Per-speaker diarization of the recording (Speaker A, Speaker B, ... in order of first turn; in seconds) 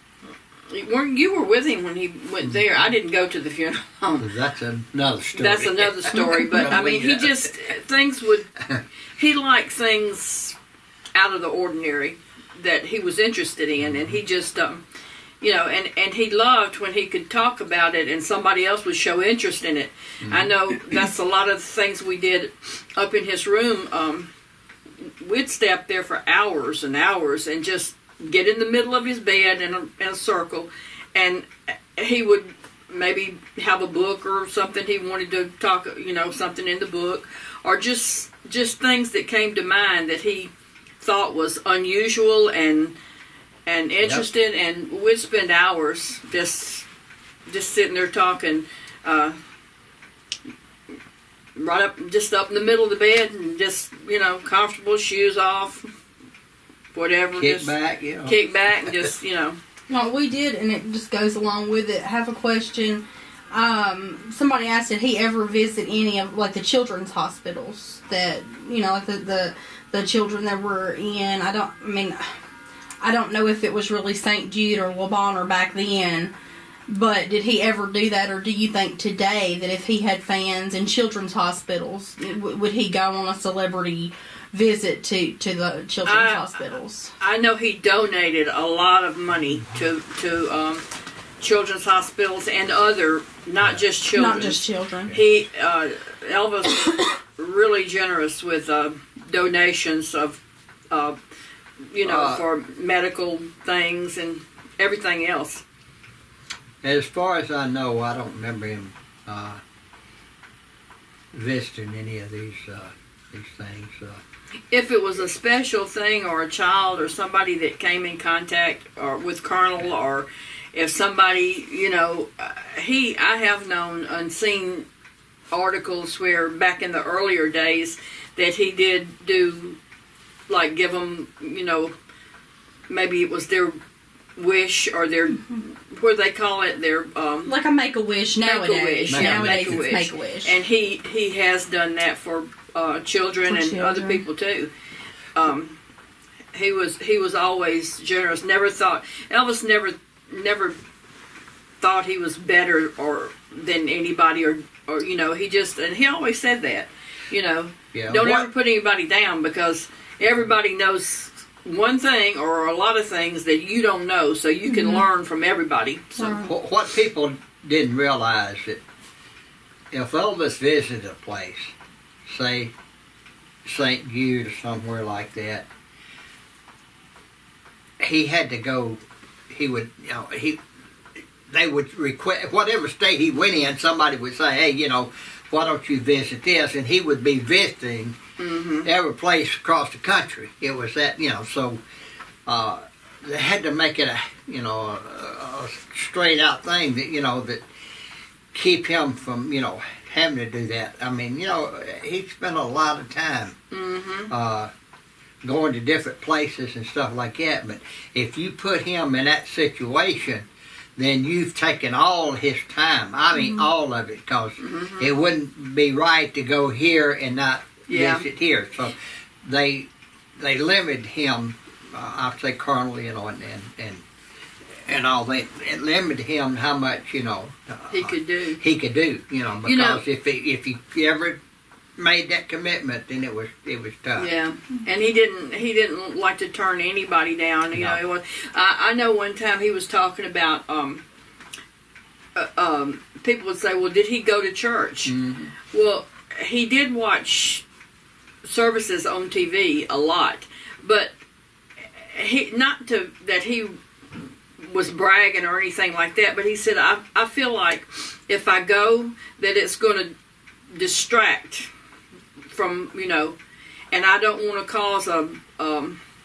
Speaker A: 0.7-4.3, 5.3-8.5, 9.2-10.6, 11.1-14.8, 15.4-24.3, 25.0-42.9, 43.6-46.9, 47.5-49.4, 51.5-55.9, 56.9-59.6, 86.0-90.8, 91.4-100.4, 100.9-101.2, 101.9-105.6, 114.7-124.8, 125.5-129.8, 130.5-131.9, 132.9-133.8, 134.3-137.5, 138.3-144.7, 145.3-145.8, 146.5-150.8, 151.8-166.3, 188.4-188.9, 203.7-204.3, 214.6-215.1, 217.9-218.2, 227.9-228.6, 229.6-230.0, 234.2-241.0, 242.3-245.1, 245.7-247.6, 248.4-251.1, 251.8-253.8, 254.6-260.1, 260.7-261.7, 262.5-263.4, 263.9-266.0
Speaker B: 2.4-2.8, 4.2-7.5, 13.8-14.2, 20.2-20.7, 57.3-58.4, 93.6-93.9, 102.0-102.4, 106.8-109.6, 111.3-114.2, 139.1-139.9, 157.9-158.5, 166.2-168.8, 169.9-171.7, 172.3-172.7, 173.7-175.7, 178.0-180.6, 181.5-188.2, 188.8-191.8, 192.4-197.6, 198.5-203.5, 204.3-204.7, 205.4-224.0, 224.8-231.4, 232.0-234.3, 237.7-238.0, 245.0-245.5
Speaker C: 59.9-72.2, 73.0-76.3, 76.9-87.1, 94.1-95.1, 137.4-140.5, 143.4-144.2, 164.7-165.1, 166.2-166.5